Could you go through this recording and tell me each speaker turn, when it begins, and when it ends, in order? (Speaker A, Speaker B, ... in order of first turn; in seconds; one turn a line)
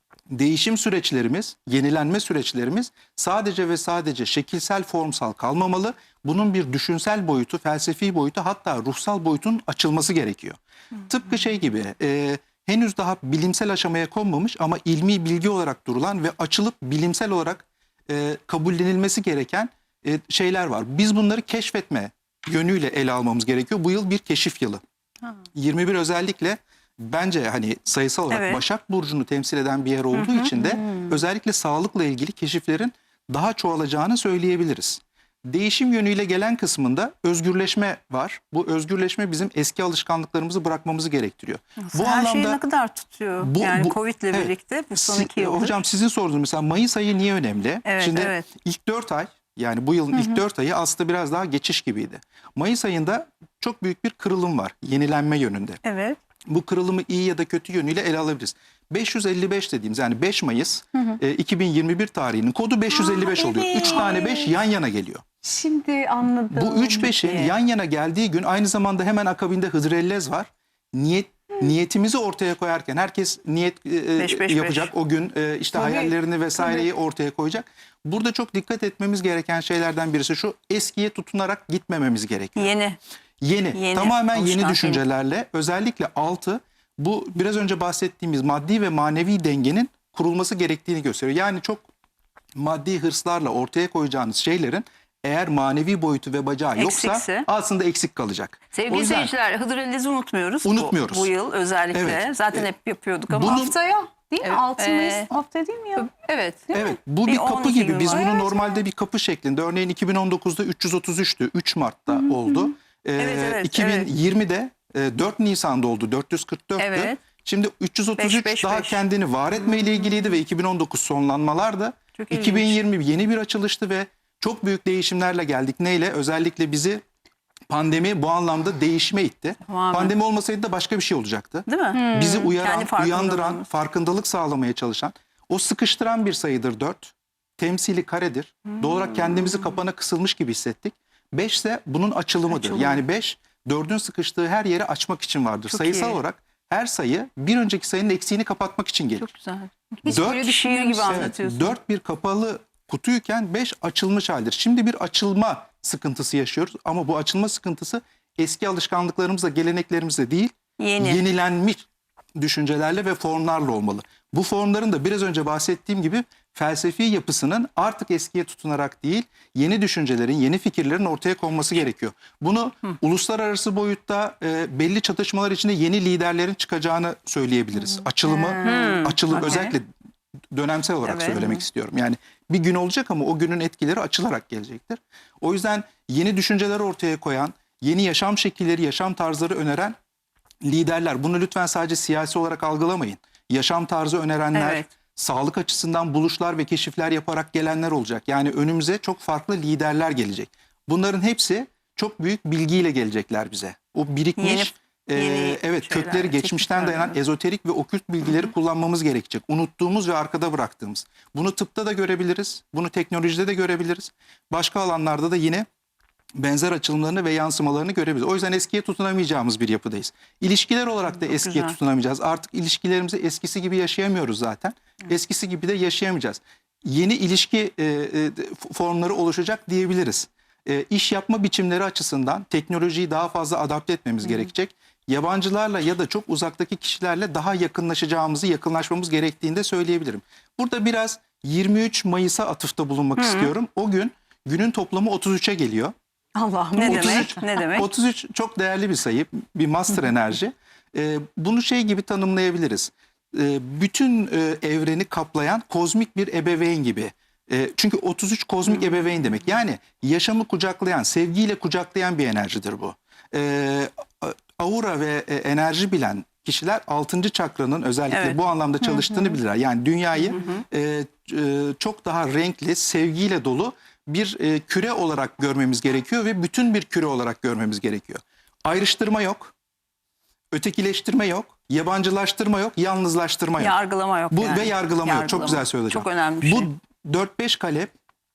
Speaker A: 0.3-24.8
Speaker A: 25.5-42.6
Speaker B: 28.3-28.6
Speaker B: 30.1-30.9
Speaker B: 41.8-45.8
Speaker A: 43.4-55.8
Speaker B: 47.9-48.5
Speaker B: 55.8-56.2
Speaker A: 56.5-65.2
Speaker C: 62.9-64.5
Speaker C: 65.4-67.5
Speaker A: 66.5-82.7
Speaker B: 74.2-74.9
Speaker C: 75.7-76.8
Speaker B: 82.5-83.0
Speaker A: 83.4-91.8
Speaker B: 83.7-85.0
Speaker A: 92.5-99.3
Speaker B: 96.8-97.5
Speaker B: 98.7-103.7
Speaker A: 100.6-101.3
Speaker A: 101.9-102.7
Speaker A: 103.3-103.7
Speaker C: 103.5-106.1
Speaker B: 104.4-105.3
Speaker B: 106.0-108.5
Speaker A: 106.7-127.0
Speaker B: 113.2-114.1
Speaker B: 116.8-117.2
Speaker B: 118.2-119.0
Speaker B: 122.2-122.8
Speaker A: 127.7-149.3
Speaker B: 129.7-130.1
Speaker B: 131.7-133.6
Speaker C: 131.9-132.5
Speaker B: 138.8-139.7
Speaker B: 142.5-143.0
Speaker B: 145.7-146.2
Speaker B: 149.2-151.8
Speaker C: 150.0-151.3
Speaker A: 150.1-150.4
Speaker A: 151.1-161.8
Speaker B: 160.8-161.2
Speaker A: 162.4-179.8
Speaker B: 178.2-179.7
Speaker A: 180.5-189.9
Speaker B: 181.0-181.6
Speaker A: 190.6-215.7
Speaker B: 194.5-194.9
Speaker B: 204.4-207.2
Speaker A: 216.4-245.9
Speaker B: 221.2-221.8
Speaker B: 243.2-243.5
Speaker C: 246.3-247.4
Speaker B: 246.8-247.9
Speaker A: 246.8-279.5
Speaker B: 268.1-268.4
Speaker C: 268.9-269.3
Speaker B: 270.2-270.6
Speaker A: 280.5-283.8
Speaker B: 283.6-286.7
Speaker A: 284.3-287.9